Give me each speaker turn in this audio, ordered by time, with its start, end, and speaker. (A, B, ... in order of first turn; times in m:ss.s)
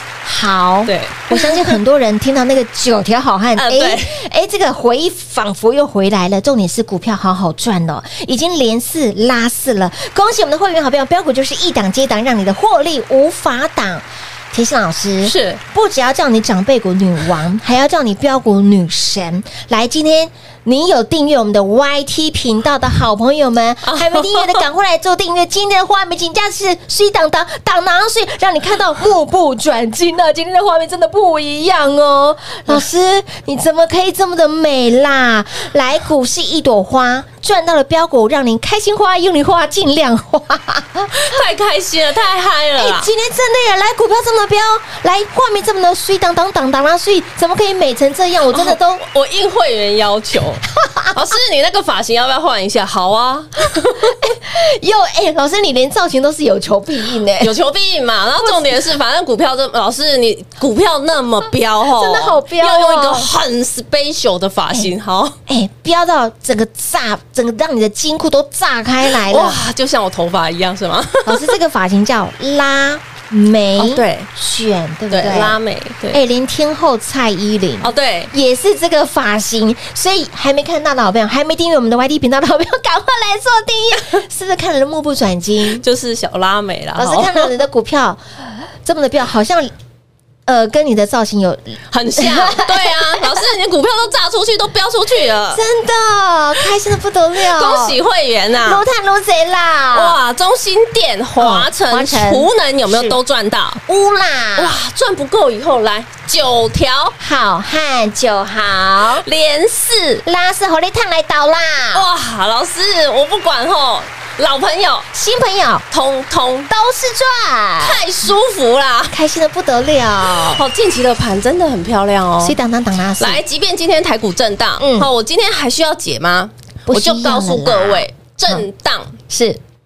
0:00.2-0:41.4 A
0:00.8-0:01.8 B
0:03.5-0:04.2 B
0:15.2-0:15.6 B
0:23.8-0:24.6 B
0:41.1-0:43.1 B
0:42.8-0:49.0 A
0:48.5-0:54.2 B
0:50.8-0:51.1 A
0:54.0-0:57.6 A
0:57.4-1:05.3 B
0:58.4-0:58.7 A
1:01.9-1:03.3 A
1:05.5-1:09.6 A
1:09.1-1:11.6 B
1:11.2-1:15.6 A
1:13.8-1:14.3 B
1:15.1-1:16.2 B
1:16.1-1:25.8 A
1:17.8-1:18.3 B
1:25.7-1:27.6 B
1:27.0-1:29.7 A
1:30.4-1:33.4 A
1:31.9-1:35.6 B
1:35.5-1:38.0 A
1:37.5-1:38.8 B
1:38.6-1:40.2 A
1:39.9-1:43.8 B
1:41.4-1:43.2 A
1:43.8-1:44.8 A
1:44.6-1:47.2 B
1:47.2-1:49.2 A
1:49.2-1:50.2 B
1:50.2-1:52.1 A
1:51.9-1:55.1 B
1:55.1-1:55.8 A
1:55.9-1:56.7 B
1:56.7-1:58.0 A
1:57.8-1:59.1 B
1:59.1-2:00.6 A
2:00.5-2:02.6 B
2:02.4-2:03.4 A
2:03.2-2:09.2 B
2:04.8-2:05.1 A
2:06.8-2:08.6 A
2:09.3-2:09.6 A